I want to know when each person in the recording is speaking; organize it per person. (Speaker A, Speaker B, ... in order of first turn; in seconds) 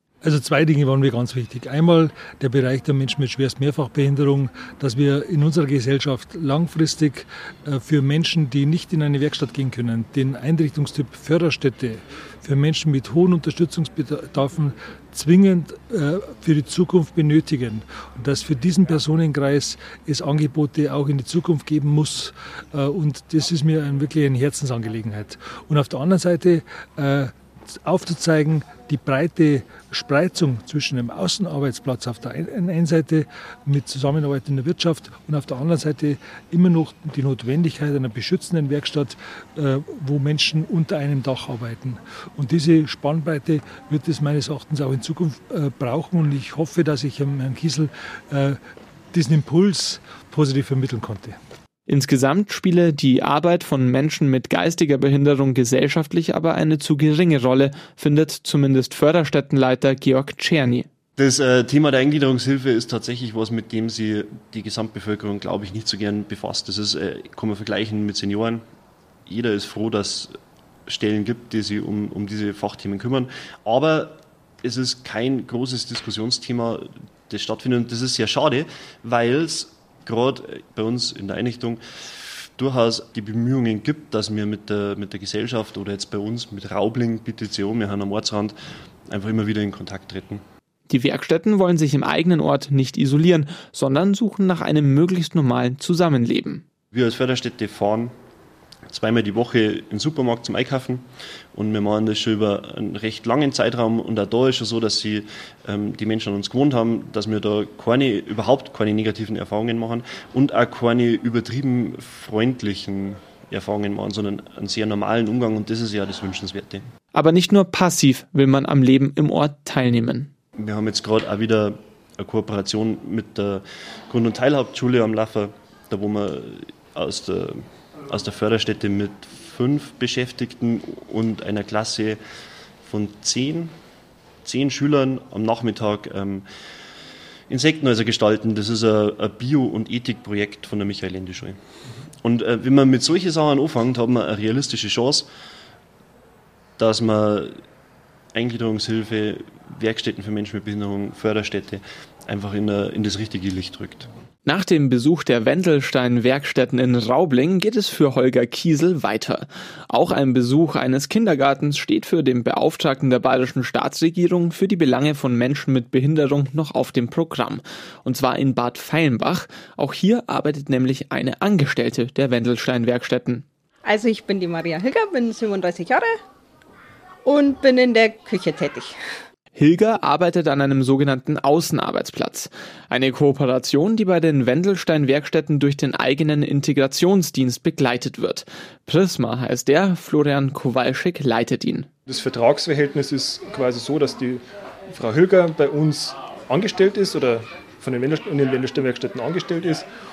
Speaker A: 0.2-48.6, 49.1-51.4
Speaker B: 51.9-60.9, 90.9-96.6, 117.1-120.3, 154.4-173.4, 179.6-191.9
Speaker C: 61.2-68.6, 69.2-70.3, 70.9-88.5, 89.1-90.4, 96.9-98.1, 98.9-116.8, 120.5-132.2, 132.8-133.7, 134.4-136.4, 137.5-141.6, 142.2-145.3, 146.8-147.6, 148.3-154.1
Speaker D: 173.8-176.2, 177.2-178.9
Speaker E: 192.1-199.9